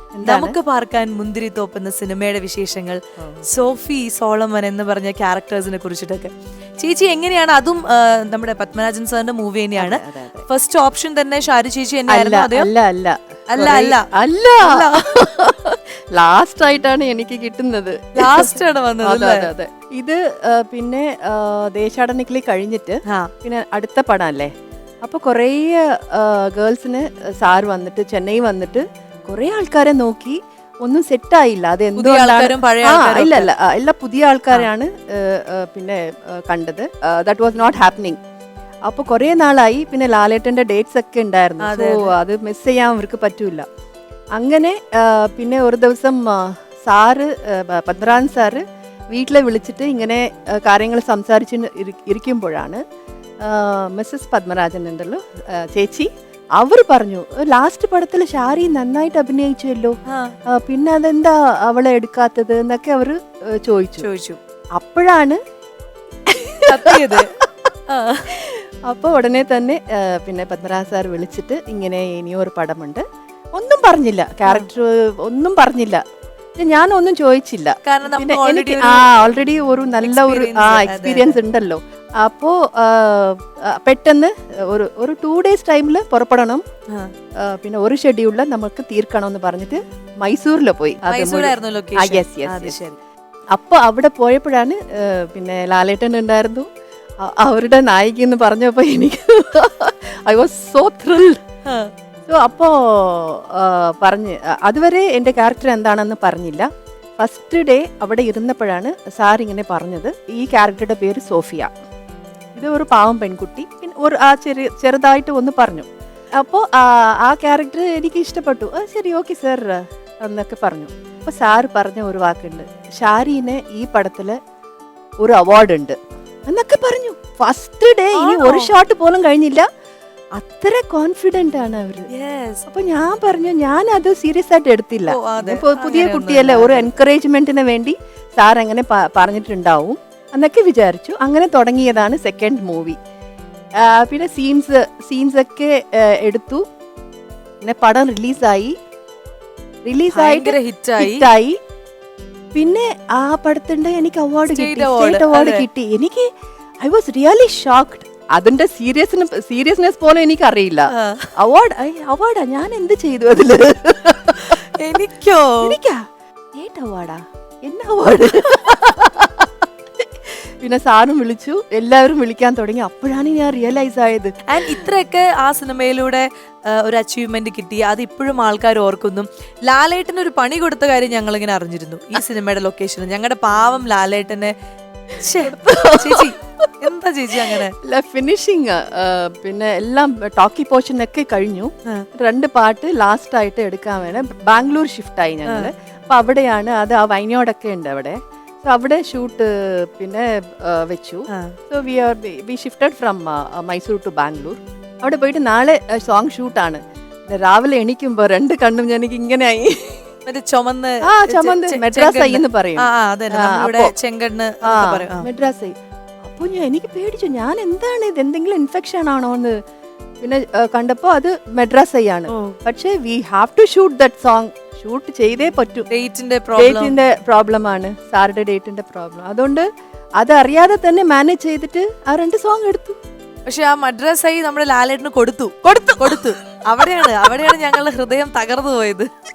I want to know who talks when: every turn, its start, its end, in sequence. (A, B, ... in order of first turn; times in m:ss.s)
0:00.2-0:00.6 A
0:00.2-0:12.7 B
0:03.2-0:03.4 A
0:09.8-0:10.4 A
0:12.1-0:24.5 A
0:13.5-0:14.0 B
0:14.6-0:15.2 B
0:18.2-0:19.5 B
0:25.0-0:38.2 A
0:32.0-0:33.5 B
0:38.9-0:43.7 A
0:41.6-0:42.1 B
0:44.4-0:52.8 A
0:53.4-1:00.0 A
1:00.1-1:00.3 B
1:00.5-1:04.1 A
1:04.0-1:04.4 B
1:04.8-1:05.4 A
1:06.3-1:07.7 A
1:06.7-1:07.3 B
1:07.9-1:08.3 B
1:08.3-1:13.0 A
1:13.6-1:16.0 A
1:16.6-1:26.6 A
1:17.8-1:19.2 B
1:20.0-1:21.4 B
1:27.4-1:32.8 A
1:31.1-1:33.0 B
1:33.5-1:36.7 A
1:37.2-1:41.4 A
1:42.3-1:46.7 A
1:47.2-1:51.7 A
1:52.6-1:55.9 A
1:56.4-2:04.4 A
2:05.2-2:06.0 A
2:06.5-2:09.7 A
2:08.1-2:08.7 B
2:10.4-2:12.1 A
2:12.1-2:12.7 B
2:12.7-2:23.0 A
2:15.1-2:16.9 B
2:23.8-2:26.6 A
2:27.6-2:28.7 A
2:29.9-2:31.6 A
2:30.1-2:31.3 B
2:32.5-2:36.3 A
2:34.5-2:35.7 B
2:36.8-2:44.6 A
2:40.9-2:41.3 B
2:44.4-2:45.7 B
2:45.6-2:46.0 A
2:46.6-2:49.6 A
2:50.6-2:54.8 A
2:54.5-3:04.5 B
3:05.2-3:07.7 B
3:05.4-3:06.3 A
3:07.4-3:26.8 A
3:15.5-3:15.7 B
3:21.3-3:21.6 B
3:27.3-3:30.1 A
3:30.3-3:35.3 B
3:31.0-3:33.9 A
3:34.6-3:35.7 A
3:36.2-3:39.6 A
3:40.2-3:45.9 A
3:45.9-3:47.0 B
3:46.6-3:49.7 A
3:50.2-3:53.0 A
3:53.5-3:59.1 B
3:55.7-3:56.3 A